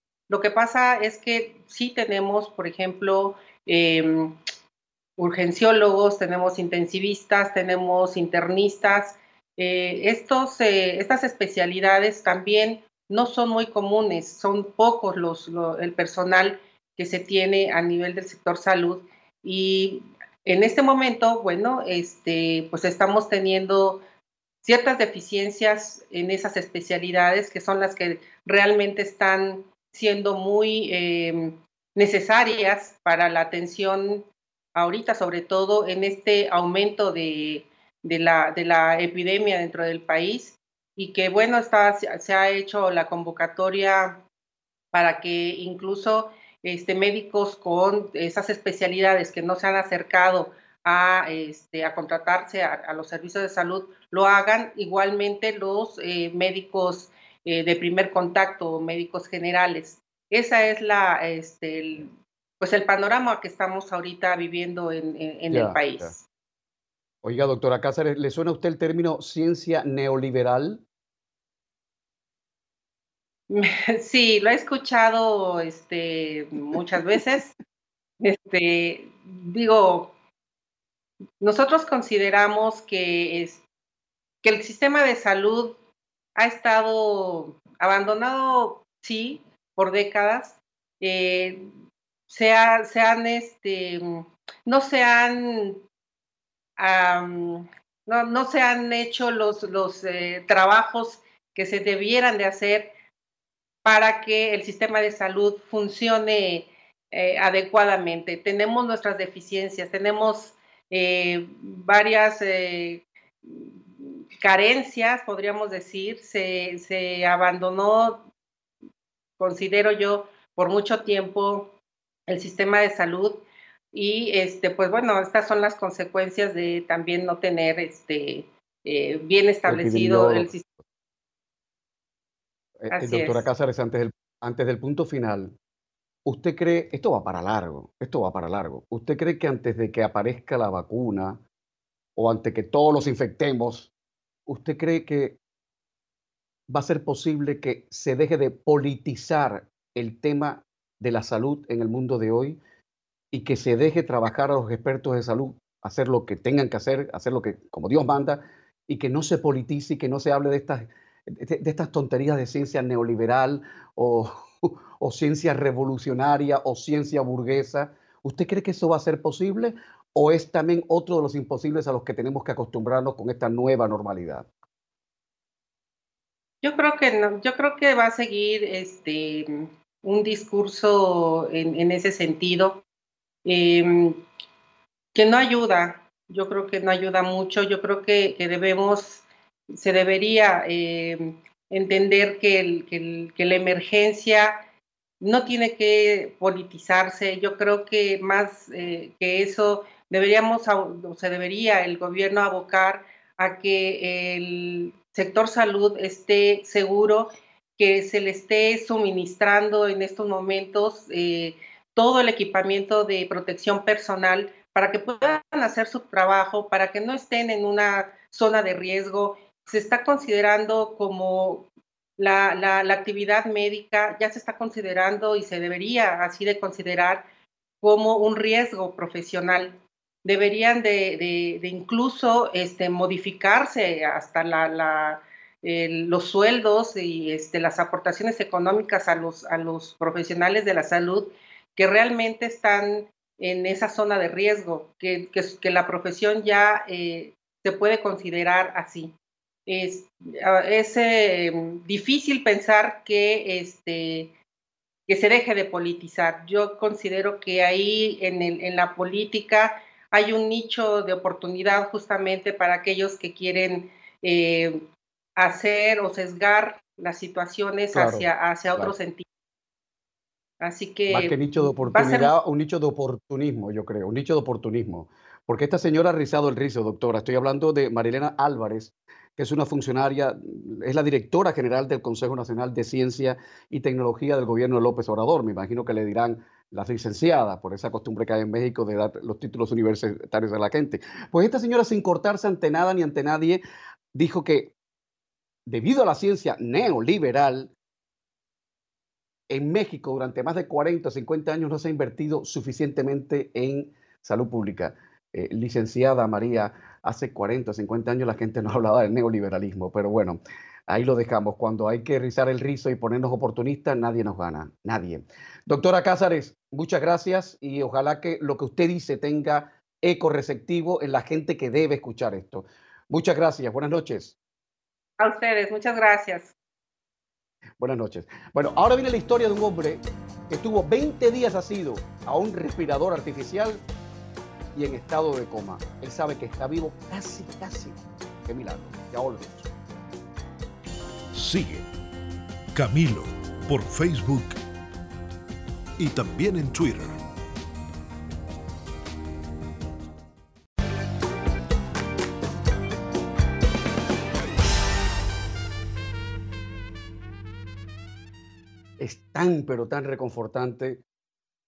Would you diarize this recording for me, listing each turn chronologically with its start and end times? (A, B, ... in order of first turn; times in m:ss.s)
0:00.3-0:04.4 A
0:05.2-0:24.0 A
0:24.6-0:44.2 A
0:44.9-1:06.2 A
1:05.5-1:06.1 B
1:07.2-1:10.8 B
1:13.5-1:17.5 A
1:18.2-1:20.1 A
1:21.4-1:23.6 A
1:24.4-1:25.8 A
1:26.4-1:31.7 A
1:32.3-1:35.8 A
1:36.8-1:42.9 A
1:43.8-1:58.3 A
1:59.4-2:01.8 A
2:02.3-2:10.7 A
2:09.6-2:10.5 B
2:12.8-2:15.5 B
2:12.9-2:13.4 A
2:16.2-2:21.4 B
2:22.2-2:23.9 B
2:24.5-2:25.4 B
2:26.7-2:32.6 B
2:33.3-2:54.4 B
2:56.6-3:02.8 A
3:03.4-3:04.2 A
3:05.1-3:14.6 A
3:15.2-3:47.2 A
3:47.8-4:09.1 A
4:09.7-4:14.3 A
4:15.1-4:29.2 A
4:27.9-4:28.9 B
4:30.6-4:32.3 A
4:31.1-4:53.6 B
4:54.1-4:54.7 B
4:55.7-4:57.7 B
4:59.5-5:24.4 B
5:25.2-5:26.5 A
5:27.8-5:33.8 B
5:34.8-5:39.7 B
5:41.3-5:41.9 C
5:42.8-5:44.6 C
5:46.0-5:47.2 C
5:59.0-6:01.0 B